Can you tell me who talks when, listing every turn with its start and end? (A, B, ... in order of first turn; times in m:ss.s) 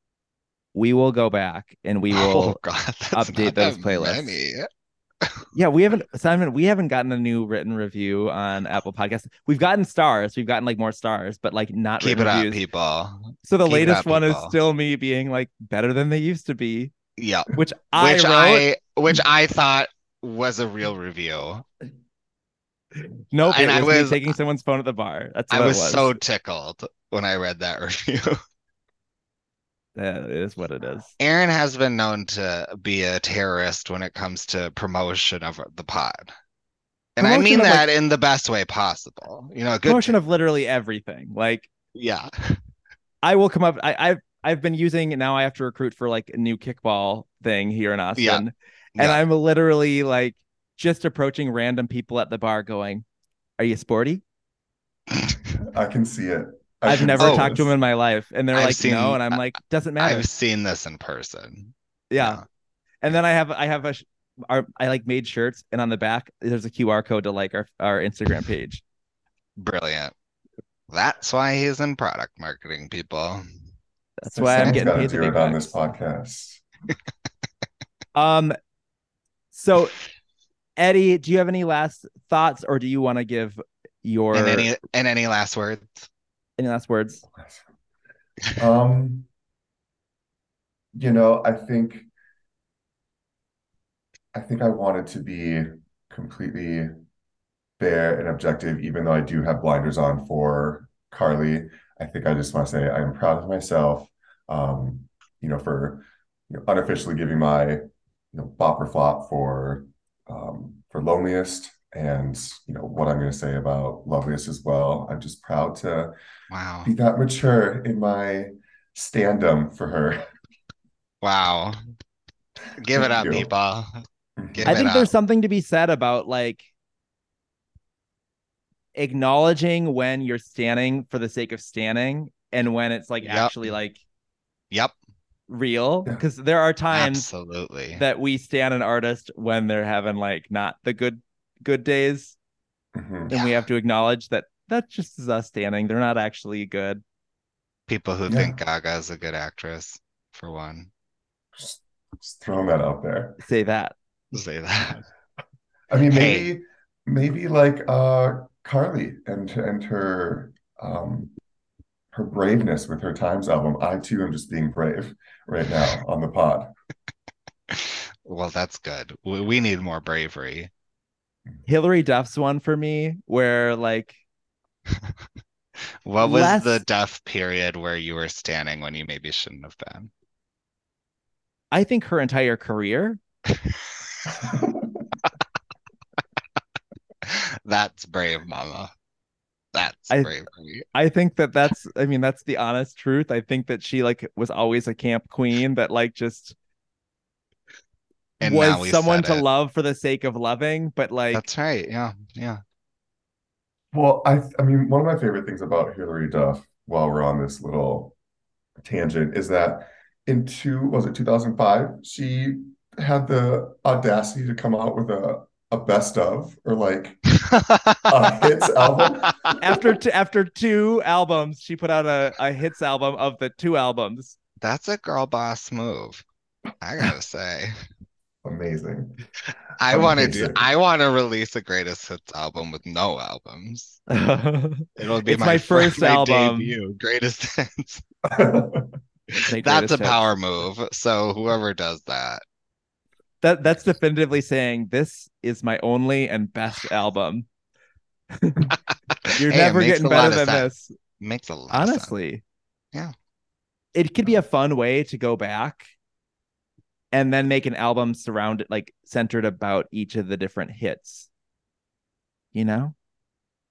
0:00.7-0:02.6 A
0:02.1-0:04.7 B
0:03.1-0:04.4 A
0:05.6-0:12.6 A
0:12.0-0:14.6 B
0:13.4-0:16.9 A
0:17.2-0:21.6 B
0:17.5-0:18.6 A
0:23.3-0:26.2 A
0:23.4-0:24.4 B
0:25.5-0:28.4 B
0:30.0-0:31.1 A
0:31.2-0:36.3 B
0:37.2-0:40.1 B
0:37.2-0:37.9 A
0:39.9-0:41.7 A
0:41.9-0:42.6 B
0:43.2-0:53.0 A
0:48.2-0:48.4 B
0:49.0-0:49.2 B
0:53.6-0:54.2 A
0:55.1-0:55.4 B
0:55.6-0:57.7 C
0:56.9-1:00.3 A
0:57.2-0:57.6 B
0:58.5-0:59.4 B
1:00.0-1:02.4 B
1:02.1-1:02.4 A
1:03.0-1:08.8 A
1:09.6-1:10.1 B
1:10.9-1:13.4 B
1:14.2-1:15.8 A
1:14.3-1:16.6 C
1:18.1-1:18.6 A
1:19.5-1:19.9 A
1:20.8-1:24.7 A
1:24.3-1:26.1 B
1:26.6-1:27.2 A
1:27.3-1:27.6 C
1:28.6-1:29.3 C
1:30.9-1:32.1 C
1:34.3-1:36.9 C
1:37.8-1:56.1 C
1:56.5-1:56.9 B
1:56.8-2:00.2 C
2:01.2-2:01.8 B
2:02.8-2:05.1 B
2:02.9-2:03.5 C
2:04.4-2:04.9 C
2:04.6-2:06.7 A
2:09.0-2:14.0 A
2:13.2-2:13.8 B
2:15.5-2:17.3 A
2:16.9-2:18.0 B
2:17.9-2:22.4 A
2:22.9-2:23.3 C
2:23.3-2:27.0 A
2:23.3-2:23.6 B
2:27.9-2:30.9 B
2:28.3-2:28.6 C
2:31.6-2:33.4 C
2:33.4-2:33.9 A
2:34.3-2:35.1 B
2:35.9-2:41.3 C
2:36.1-2:36.5 B
2:42.1-2:46.7 C
2:47.7-2:50.7 B
2:51.7-2:54.2 A
2:56.0-3:00.1 B
2:56.2-2:56.8 A
3:01.7-3:03.2 A
3:03.6-3:04.2 B
3:04.4-3:05.0 C
3:07.2-3:08.9 B
3:09.7-3:10.9 B
3:10.9-3:16.6 A
3:18.4-3:19.4 B
3:18.4-3:21.4 A
3:21.3-3:22.6 B
3:23.9-3:28.2 C
3:28.8-3:37.2 C
3:37.5-3:38.1 B
3:38.1-3:39.8 C
3:39.6-3:44.4 A
3:44.6-3:46.2 B
3:46.8-3:47.7 B
3:48.4-3:49.2 C
3:49.8-3:54.0 B
3:49.9-3:50.6 C
3:54.1-3:56.8 A
3:55.0-3:58.0 B
3:58.2-3:59.0 C
3:59.3-4:02.4 B
3:59.5-4:00.3 A
4:03.4-4:07.5 A
4:08.3-4:08.8 A
4:09.1-4:10.7 B
4:09.4-4:10.9 A
4:11.2-4:12.1 B
4:11.7-4:12.4 A
4:13.9-4:15.8 A
4:17.1-4:21.3 A
4:22.5-4:22.9 A